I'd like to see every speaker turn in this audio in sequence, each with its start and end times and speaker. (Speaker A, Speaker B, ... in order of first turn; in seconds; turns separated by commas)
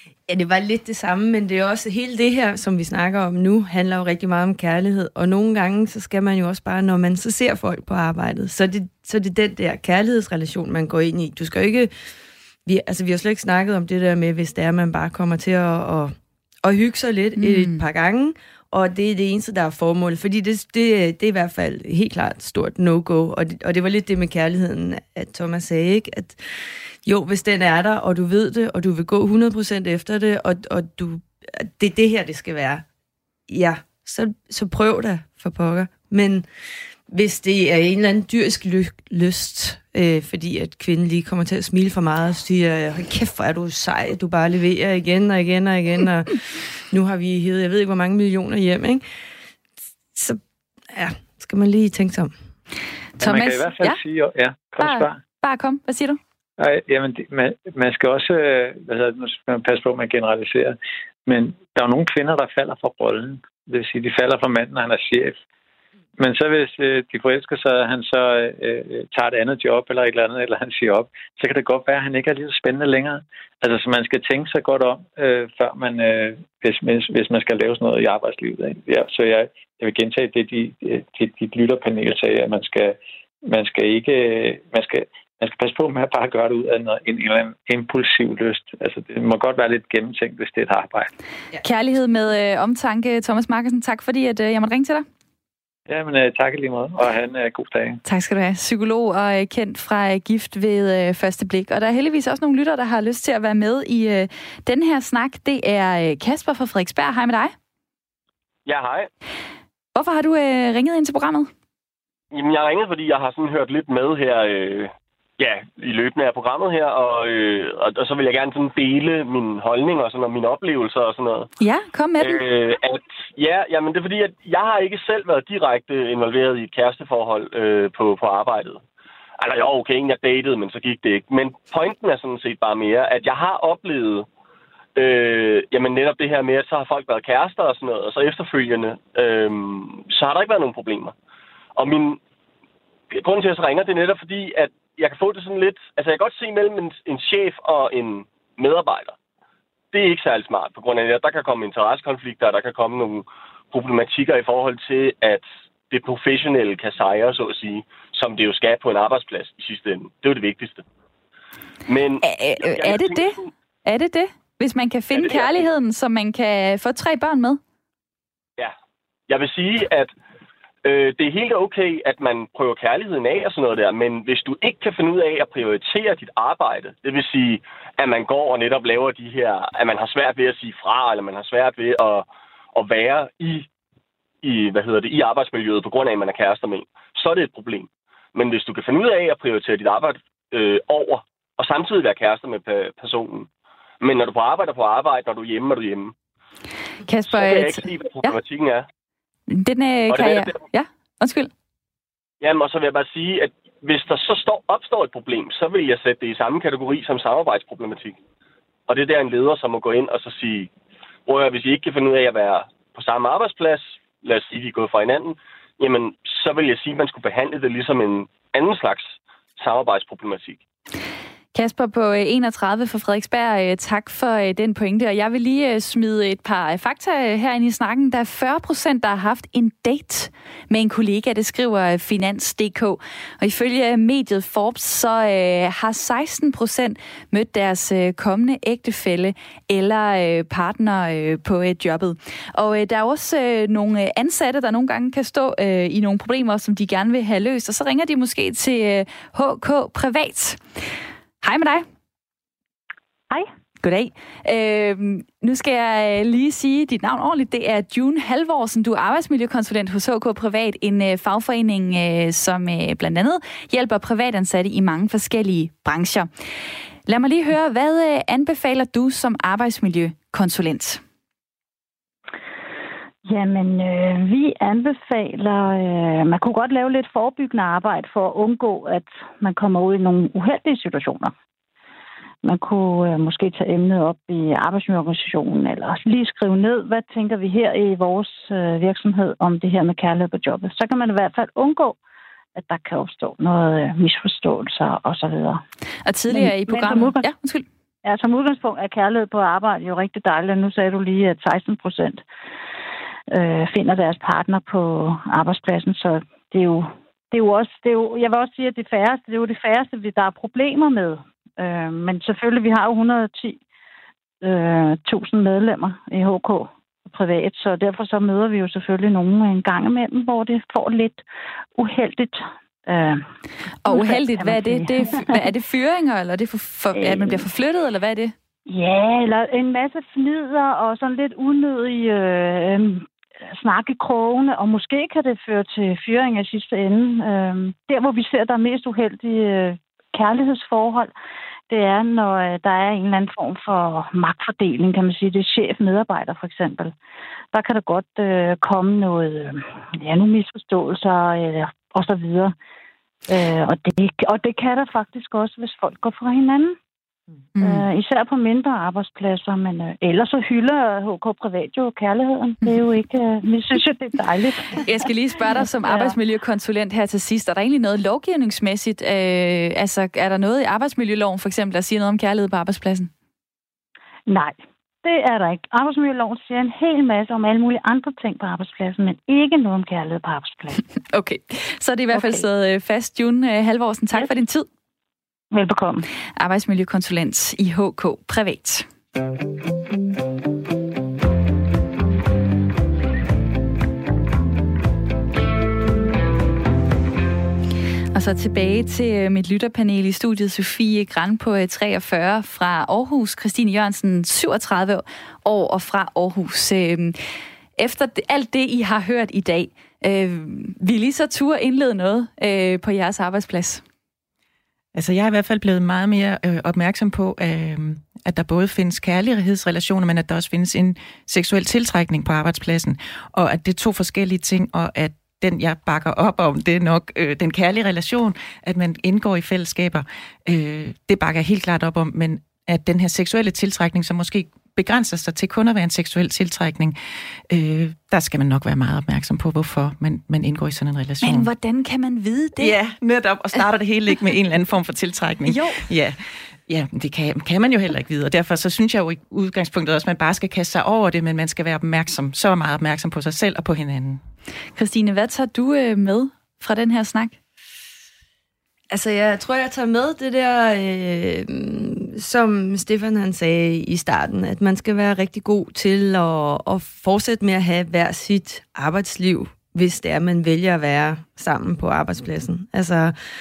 Speaker A: 0.3-11.9, Speaker A: 12.7-32.8, Speaker B: 17.4-17.8, Speaker A: 33.5-36.4, Speaker A: 37.1-49.0, Speaker A: 50.1-50.4, Speaker A: 50.9-52.3, Speaker B: 53.2-54.0, Speaker C: 53.2-55.2, Speaker B: 54.8-56.2, Speaker C: 56.6-65.4, Speaker C: 66.2-91.1, Speaker B: 91.6-95.0, Speaker C: 95.9-98.0, Speaker B: 98.0-107.5, Speaker D: 108.7-109.1, Speaker B: 109.9-111.5, Speaker D: 112.3-121.5, Speaker B: 121.6-122.4, Speaker D: 122.2-128.8, Speaker D: 129.4-134.3, Speaker D: 134.9-141.1, Speaker D: 141.8-142.2, Speaker D: 143.1-149.1, Speaker D: 149.9-160.8, Speaker D: 161.9-163.5, Speaker B: 162.2-167.6, Speaker D: 165.1-165.7, Speaker D: 169.3-170.1, Speaker D: 170.8-183.7, Speaker D: 184.4-193.5, Speaker D: 194.0-196.1, Speaker B: 197.1-198.4, Speaker D: 197.3-198.9, Speaker B: 199.5-201.5, Speaker D: 200.1-200.6, Speaker D: 202.4-208.2, Speaker D: 208.9-210.7, Speaker D: 211.3-220.6, Speaker B: 221.5-250.6, Speaker B: 251.4-251.8, Speaker B: 253.8-266.3, Speaker B: 267.1-271.0, Speaker E: 273.2-281.3, Speaker E: 282.4-292.0, Speaker E: 292.6-295.6, Speaker B: 296.1-297.6, Speaker E: 296.3-297.3, Speaker E: 298.0-302.2, Speaker E: 303.3-313.6, Speaker E: 314.4-321.2, Speaker E: 321.8-323.2, Speaker B: 323.8-328.3, Speaker E: 323.9-325.4, Speaker E: 326.9-327.4, Speaker E: 328.7-333.1, Speaker E: 333.6-341.1, Speaker E: 341.7-346.9, Speaker E: 347.5-352.5, Speaker E: 353.3-356.8, Speaker B: 357.6-357.9, Speaker E: 357.6-365.0, Speaker B: 364.8-373.1, Speaker E: 365.8-366.1, Speaker E: 374.3-380.8, Speaker B: 381.1-384.6, Speaker E: 382.1-382.4, Speaker E: 385.5-386.1, Speaker B: 386.4-388.9, Speaker B: 398.1-407.2, Speaker B: 407.8-413.8, Speaker F: 414.9-437.0, Speaker F: 437.5-441.5, Speaker B: 441.2-442.7, Speaker F: 442.6-454.2, Speaker B: 445.4-445.8, Speaker B: 454.8-457.4, Speaker A: 458.9-473.1